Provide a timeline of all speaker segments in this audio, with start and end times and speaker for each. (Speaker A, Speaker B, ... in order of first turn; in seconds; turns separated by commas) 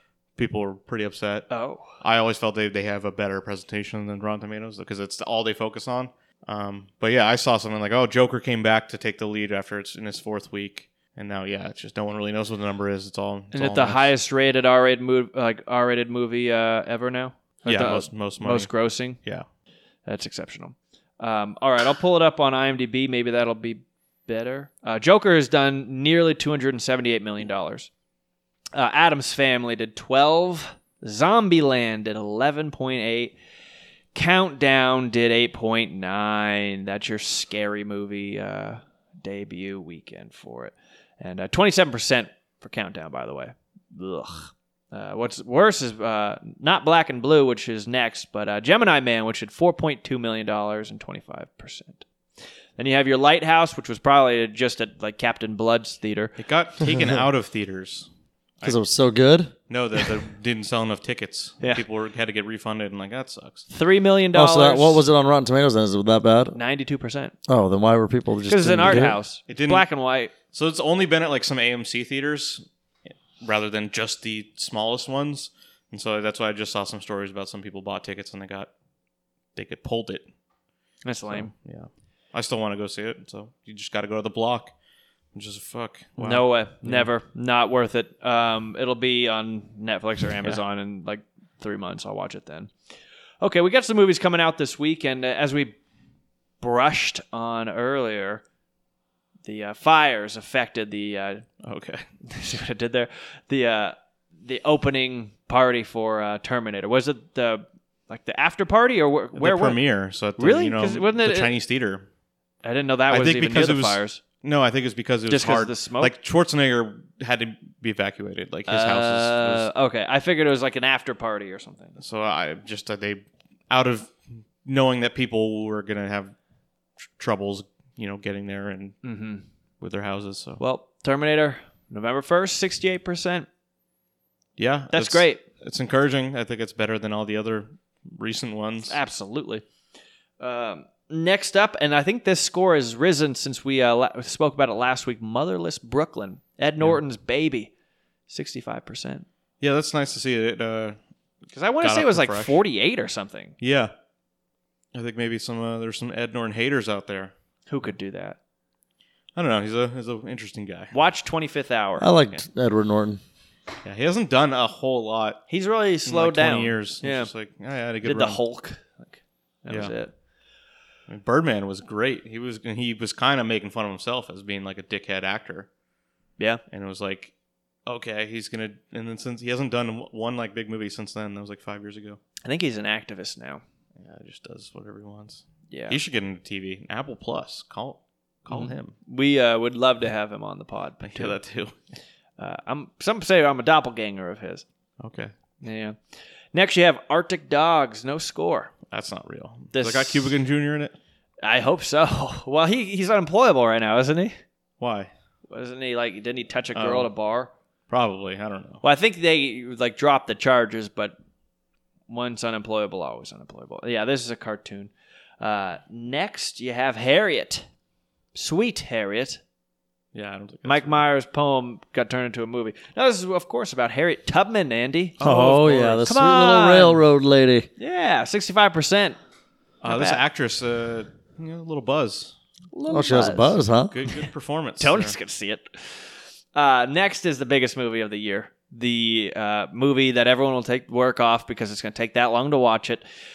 Speaker A: 0.4-14.1, Speaker B: 1.5-1.9, Speaker B: 13.5-19.2, Speaker A: 17.6-19.4, Speaker B: 20.1-27.9, Speaker B: 28.7-33.4, Speaker B: 34.1-52.0, Speaker B: 52.8-56.3, Speaker A: 56.4-58.1, Speaker C: 58.6-59.5, Speaker A: 59.7-63.6, Speaker B: 63.7-65.0, Speaker C: 64.3-66.6, Speaker B: 66.5-67.3, Speaker C: 67.5-69.2, Speaker B: 68.5-70.3, Speaker A: 68.9-69.8, Speaker A: 70.5-72.6, Speaker A: 73.4-78.7, Speaker A: 79.5-80.2, Speaker B: 81.0-81.5, Speaker A: 81.3-84.7, Speaker A: 85.3-87.1, Speaker B: 86.2-92.7, Speaker B: 93.4-95.8, Speaker B: 96.6-98.4, Speaker B: 99.4-101.5, Speaker A: 101.6-102.0, Speaker B: 102.3-109.8, Speaker A: 109.3-112.1, Speaker B: 110.4-111.5, Speaker B: 112.6-114.2, Speaker A: 113.1-119.7, Speaker B: 115.3-116.1, Speaker B: 118.7-122.0, Speaker A: 122.0-126.3, Speaker A: 127.2-129.0, Speaker B: 129.0-129.4, Speaker A: 129.8-130.6, Speaker B: 130.6-133.5, Speaker A: 134.6-139.0, Speaker B: 134.9-135.4, Speaker B: 138.8-139.6, Speaker B: 140.4-147.7, Speaker B: 148.3-149.2, Speaker A: 149.6-151.0, Speaker B: 151.5-153.5, Speaker A: 151.8-152.6, Speaker A: 153.6-153.9, Speaker A: 154.9-157.3, Speaker B: 157.7-158.4, Speaker A: 159.3-160.9, Speaker B: 160.9-162.1, Speaker C: 162.0-163.2, Speaker A: 163.8-165.4, Speaker B: 165.5-167.3, Speaker A: 166.1-168.4, Speaker B: 168.0-170.1, Speaker A: 171.1-175.7, Speaker A: 176.7-177.3, Speaker A: 177.8-182.2, Speaker B: 182.4-183.6, Speaker A: 184.0-188.9, Speaker B: 185.7-186.0, Speaker B: 188.5-191.4, Speaker A: 191.0-191.8, Speaker B: 192.4-194.6, Speaker A: 195.0-195.3, Speaker B: 195.6-196.0, Speaker B: 196.5-198.7, Speaker A: 198.9-200.9, Speaker B: 199.7-200.3, Speaker B: 201.4-204.4, Speaker A: 204.8-205.1, Speaker B: 205.5-207.5, Speaker A: 206.7-207.1, Speaker A: 207.9-208.8, Speaker B: 208.8-211.1, Speaker B: 212.1-217.7, Speaker B: 218.3-219.4, Speaker A: 220.1-221.0, Speaker B: 220.6-227.0, Speaker A: 225.2-226.0, Speaker C: 225.2-227.7, Speaker B: 227.8-229.2, Speaker A: 229.8-232.3, Speaker B: 229.8-230.2, Speaker B: 232.7-234.3, Speaker C: 232.9-233.9, Speaker A: 233.9-235.1, Speaker B: 234.8-243.0